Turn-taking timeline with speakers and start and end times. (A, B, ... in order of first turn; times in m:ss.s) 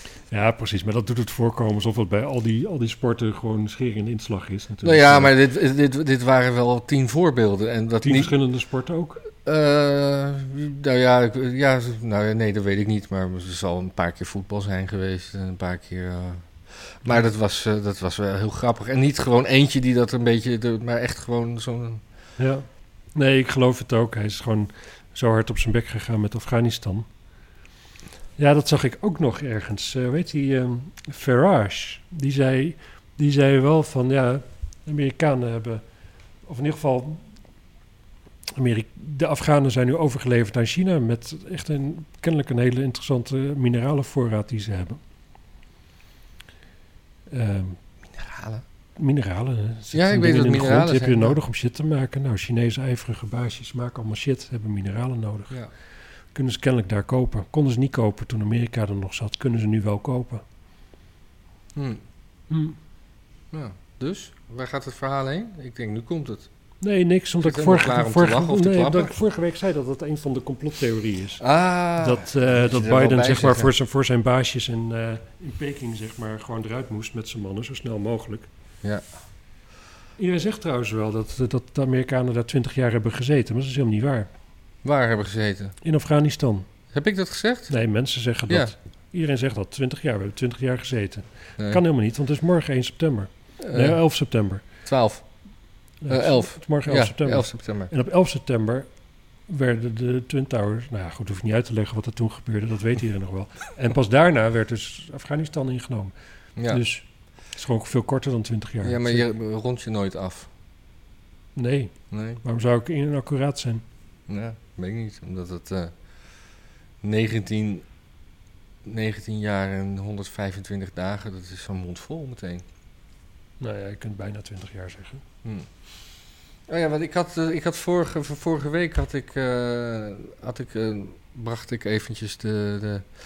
0:00.3-0:05.3 A
0:04.8-0:08.3 B
0:08.0-0:09.2 A
0:09.4-0:22.0 B
0:22.4-0:27.1 A
0:28.4-0:35.8 A
0:36.4-0:37.2 A
0:38.6-0:45.0 A
0:47.3-0:47.8 A
0:48.1-0:48.6 B
0:49.0-0:55.6 A
0:49.9-0:51.4 B
0:56.3-1:00.4 A
1:01.7-1:02.0 B
1:02.5-1:02.8 A
1:03.5-1:06.5 B
1:06.8-1:11.4 A
1:07.4-1:09.1 B
1:11.4-1:13.7 B
1:12.0-1:18.5 A
1:20.2-1:24.3 A
1:24.8-1:25.8 B
1:25.8-1:26.7 A
1:26.9-1:27.7 B
1:27.7-1:34.6 A
1:33.6-1:34.0 B
1:34.8-1:35.2 B
1:36.0-1:38.9 A
1:36.1-1:37.9 B
1:39.5-1:46.1 A
1:46.6-1:46.8 B
1:46.7-1:49.2 A
1:48.8-1:50.5 B
1:51.6-1:53.8 A
1:52.1-1:52.4 B
1:54.3-1:55.9 B
1:57.0-1:57.8 B
1:58.8-2:02.6 B
2:03.6-2:05.2 A
2:06.7-2:13.1 B